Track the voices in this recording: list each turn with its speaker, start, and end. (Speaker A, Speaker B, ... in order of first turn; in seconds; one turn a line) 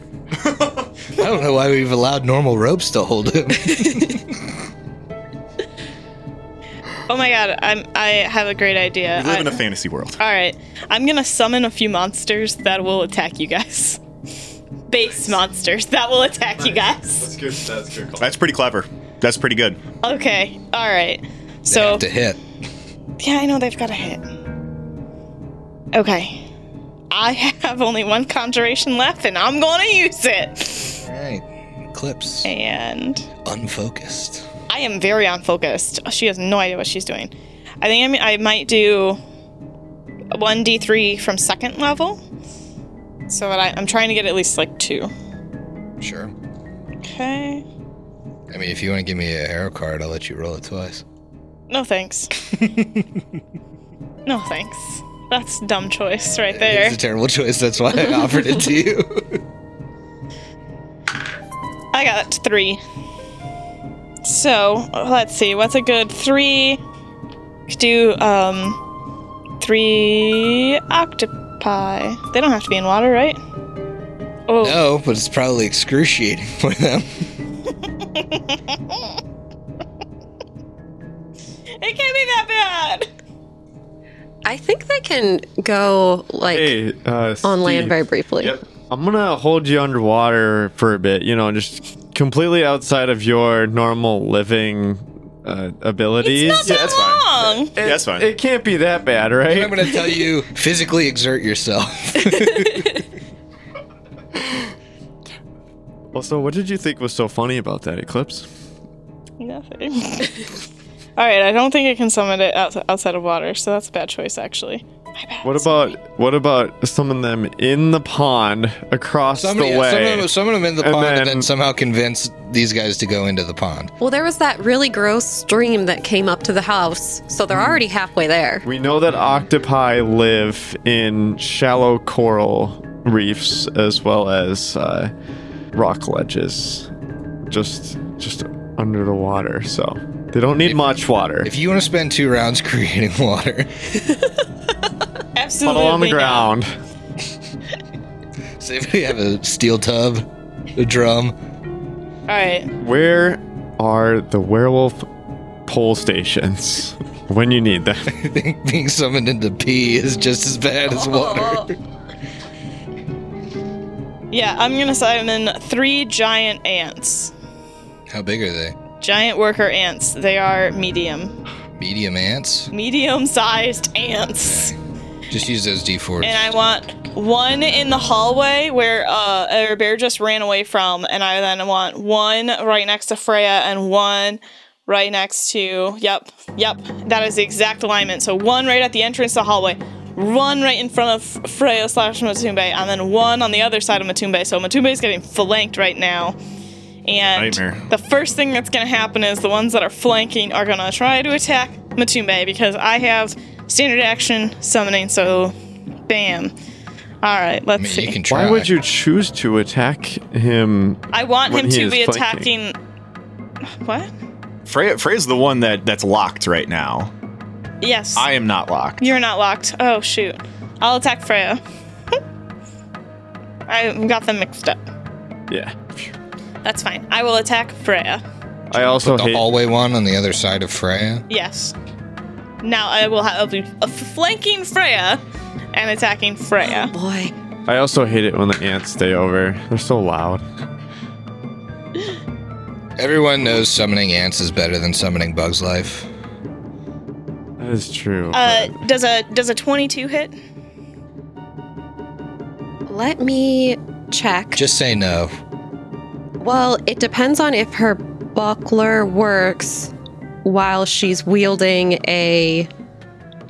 Speaker A: 0.4-0.9
Speaker B: 1.2-4.4
Speaker C: 7.1-9.6
Speaker A: 9.2-10.2
Speaker C: 10.2-14.0
Speaker C: 14.9-17.3
Speaker D: 16.6-18.3
Speaker A: 18.2-19.8
Speaker C: 20.0-22.0
Speaker B: 21.7-22.4
Speaker C: 23.2-24.3
Speaker C: 25.9-26.5
Speaker C: 27.1-31.0
Speaker B: 31.0-32.5
Speaker C: 32.4-33.3
Speaker B: 33.4-34.5
Speaker C: 34.7-37.3
Speaker C: 37.8-39.2
Speaker C: 40.3-42.2
Speaker C: 43.3-45.1
Speaker B: 46.0-46.3
Speaker C: 47.0-47.6
Speaker B: 48.5-51.0
Speaker C: 51.7-52.3
Speaker B: 52.6-53.1
Speaker C: 54.3-57.0
Speaker B: 56.5-59.4
Speaker C: 61.9-62.8
Speaker C: 64.2-66.8
Speaker C: 67.7-68.8
Speaker C: 69.6-73.4
Speaker C: 74.5-74.8
Speaker B: 74.6-77.3
Speaker C: 78.2-79.2
Speaker C: 81.8-83.1
Speaker E: 84.5-86.7
Speaker D: 86.5-88.0
Speaker E: 87.4-88.6
Speaker D: 88.9-100.0
Speaker C: 96.2-97.8
Speaker A: 96.6-98.3
Speaker B: 99.5-103.1
Speaker D: 106.1-108.5
Speaker C: 109.4-110.6
Speaker C: 111.2-116.0
Speaker D: 115.4-121.5
Speaker B: 119.4-123.9
Speaker E: 124.0-128.7
Speaker D: 128.7-135.1
Speaker D: 135.7-136.9
Speaker D: 137.4-141.5
Speaker B: 141.4-143.8
Speaker C: 145.3-146.5
Speaker D: 145.6-146.7
Speaker B: 148.6-151.4
Speaker C: 152.3-152.7
Speaker D: 152.8-155.1
Speaker D: 155.7-158.1
Speaker B: 158.1-161.8
Speaker C: 160.9-161.7
Speaker C: 164.3-167.3
Speaker B: 168.1-168.8
Speaker C: 169.0-171.4
Speaker B: 171.8-172.7
Speaker C: 172.7-174.7
Speaker B: 174.4-174.8
Speaker B: 175.3-176.6
Speaker C: 176.2-196.4
Speaker C: 197.1-205.5
Speaker A: 197.3-197.9
Speaker C: 206.1-206.5
Speaker C: 207.2-208.2
Speaker B: 207.8-208.7
Speaker D: 208.3-212.5
Speaker C: 211.1-212.8
Speaker C: 213.7-214.1
Speaker A: 214.7-217.1
Speaker C: 217.8-218.3
Speaker A: 218.2-219.1
Speaker C: 219.0-221.6
Speaker C: 223.7-224.8
Speaker D: 225.5-226.1
Speaker C: 226.6-228.2
Speaker B: 228.7-231.2
Speaker D: 228.7-229.5
Speaker C: 231.3-231.7
Speaker C: 232.6-235.2
Speaker C: 235.7-236.9
Speaker E: 236.6-237.3
Speaker D: 237.7-240.4
Speaker B: 243.0-246.1
Speaker D: 247.6-248.8
Speaker C: 248.3-250.4
Speaker E: 252.9-254.6
Speaker B: 254.6-255.4
Speaker E: 256.4-259.9
Speaker E: 260.4-262.7